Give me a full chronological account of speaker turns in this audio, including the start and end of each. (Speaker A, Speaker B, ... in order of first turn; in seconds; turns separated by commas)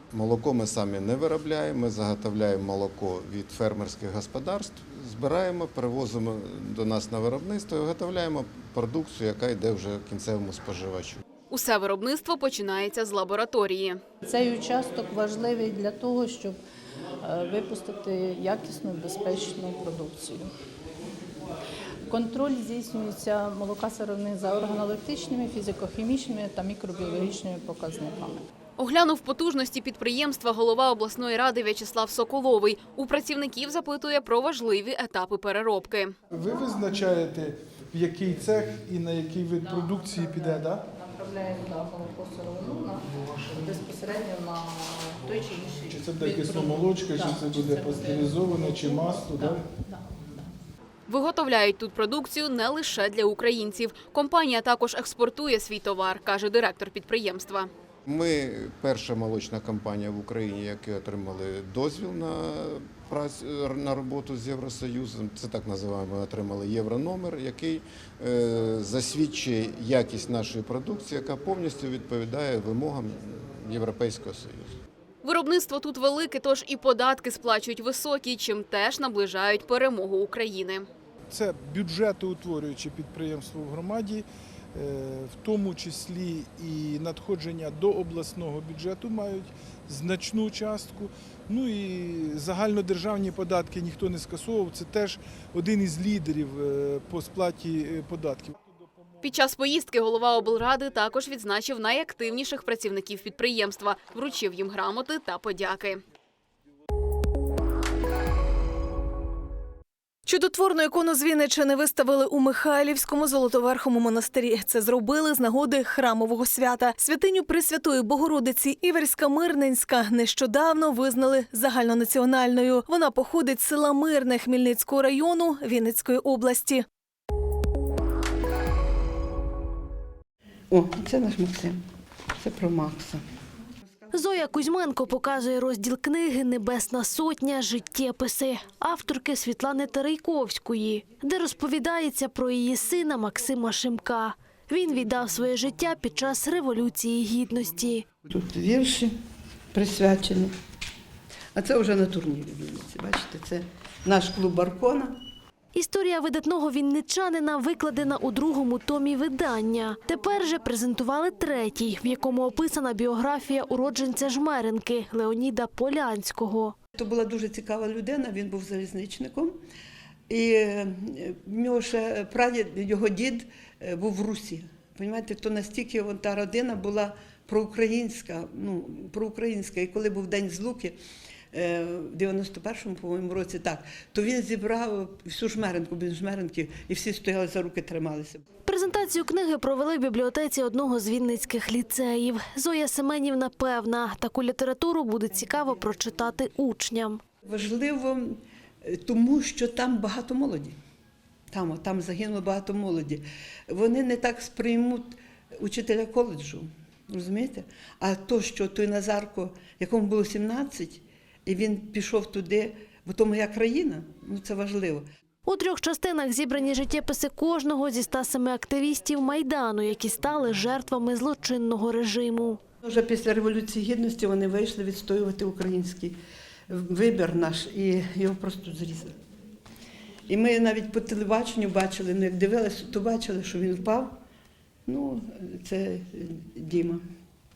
Speaker A: 0.1-11.2, Speaker B: 11.5-14.0, Speaker C: 14.2-16.6, Speaker C: 17.2-20.5, Speaker C: 22.1-28.4, Speaker B: 28.8-36.1, Speaker D: 36.4-40.8, Speaker C: 41.0-43.0, Speaker C: 43.7-45.8, Speaker D: 45.9-49.6, Speaker B: 51.1-57.7, Speaker A: 58.1-74.7, Speaker B: 75.2-80.9, Speaker D: 81.3-98.5, Speaker B: 99.2-106.0, Speaker E: 110.2-126.8, Speaker F: 130.7-131.8, Speaker F: 132.4-133.2, Speaker G: 134.1-148.0, Speaker F: 148.3-149.1, Speaker F: 149.7-150.5, Speaker F: 151.5-155.2, Speaker G: 155.7-166.7, Speaker F: 166.9-169.6, Speaker F: 170.3-181.0, Speaker F: 181.5-188.4, Speaker G: 188.7-197.2, Speaker F: 197.4-200.7, Speaker F: 201.5-215.0, Speaker G: 215.4-222.6, Speaker F: 222.8-226.2, Speaker F: 226.7-229.1, Speaker F: 230.3-234.2, Speaker F: 234.8-237.0